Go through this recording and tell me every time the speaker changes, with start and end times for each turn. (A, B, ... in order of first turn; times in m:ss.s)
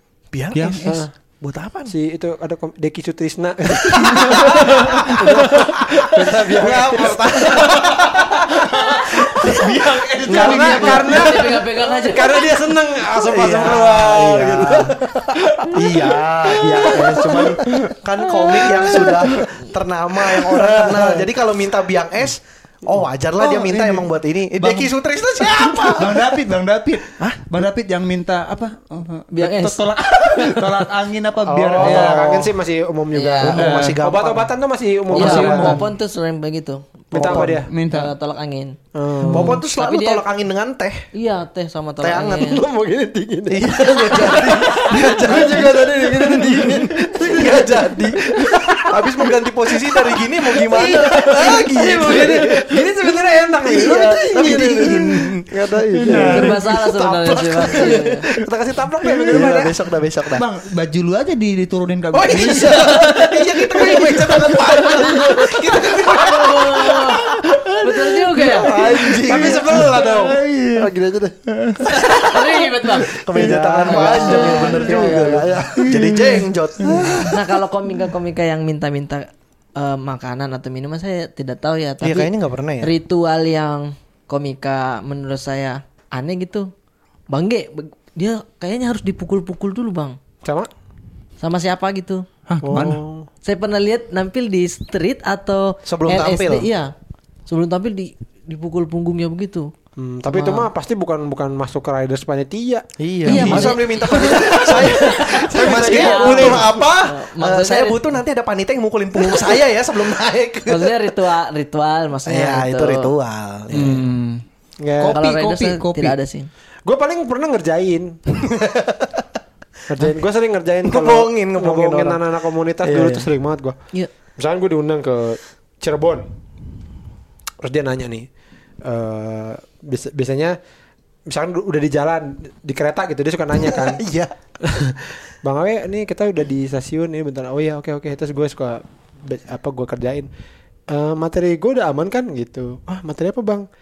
0:00.3-0:01.9 A
0:00.5-0:01.0 B
0:00.7-0:01.1 C
0:01.9-0:07.9 C
0:03.8-0:10.7 A
0:04.2-0:05.2 B
0:07.8-0:11.5 B
0:10.2-0:17.6 C
0:10.5-0:12.5 D
0:13.1-0:15.0 A
0:15.5-0:16.1 B
0:15.7-0:26.3 A
0:16.6-0:19.5 B
0:18.9-0:19.2 C
0:20.5-0:21.3 C
0:23.4-0:32.3 B
0:29.3-0:30.8 D
0:31.5-0:35.8 C
0:31.9-0:32.4 A
0:33.1-0:33.6 D
0:33.4-0:34.5 A
0:33.5-0:34.0 B
0:35.1-0:35.8 B
0:35.1-0:38.8 D
0:35.3-0:35.8 A
0:37.1-0:37.7 C
0:37.2-0:38.1 B
0:39.0-0:39.6 C
0:39.3-0:41.1 A
0:39.3-0:40.2 D
0:41.1-0:42.6 D
0:42.0-0:42.5 A
0:42.4-0:56.6 C
0:43.5-0:52.8 A
0:52.1-0:52.4 B
0:53.6-0:58.2 A
0:53.9-0:55.3 B
0:56.0-0:56.6 B
0:56.3-0:58.2 D
0:57.7-0:59.7 C
0:59.0-0:59.6 B
0:59.3-1:00.4 A
1:00.3-1:05.9 B
1:02.1-1:07.6 A
1:05.9-1:08.7 D
1:07.2-1:07.8 B
1:08.4-1:10.0 A
1:08.4-1:10.9 B
1:08.8-1:10.4 C
1:10.8-1:11.4 A
1:11.5-1:11.9 B
1:11.8-1:13.3 D
1:11.9-1:12.4 A
1:13.1-1:17.4 A
1:13.3-1:17.4 B
1:13.4-1:15.5 C
1:13.8-1:15.5 D
1:17.3-1:22.3 D
1:22.0-1:22.9 A
1:22.8-1:26.7 D
1:27.3-1:30.2 D
1:30.4-1:30.7 C
1:31.4-1:32.2 D
1:32.5-1:33.0 B
1:32.6-1:33.3 C
1:33.4-1:36.9 D
1:35.9-1:36.7 A
1:37.5-1:39.7 D
1:40.0-1:42.8 C
1:40.3-1:40.7 D
1:43.0-1:51.0 A
1:43.3-1:45.1 B
1:43.3-1:48.1 D
1:43.4-1:43.7 C
1:44.4-1:46.8 C
1:50.7-1:53.1 D
1:52.3-1:54.0 A
1:53.7-1:54.1 C
1:53.7-1:54.4 B
1:54.8-1:55.2 C
1:55.0-1:56.2 B
1:55.1-1:56.5 D
1:56.9-1:58.2 C
1:58.4-1:59.2 A
1:59.9-2:03.8 C
2:00.9-2:02.2 A
2:02.8-2:03.3 A
2:04.4-2:06.3 C
2:07.6-2:08.3 C
2:08.8-2:10.6 C
2:11.3-2:14.0 C
2:13.7-2:14.3 A
2:14.6-2:20.3 C
2:20.9-2:23.7 C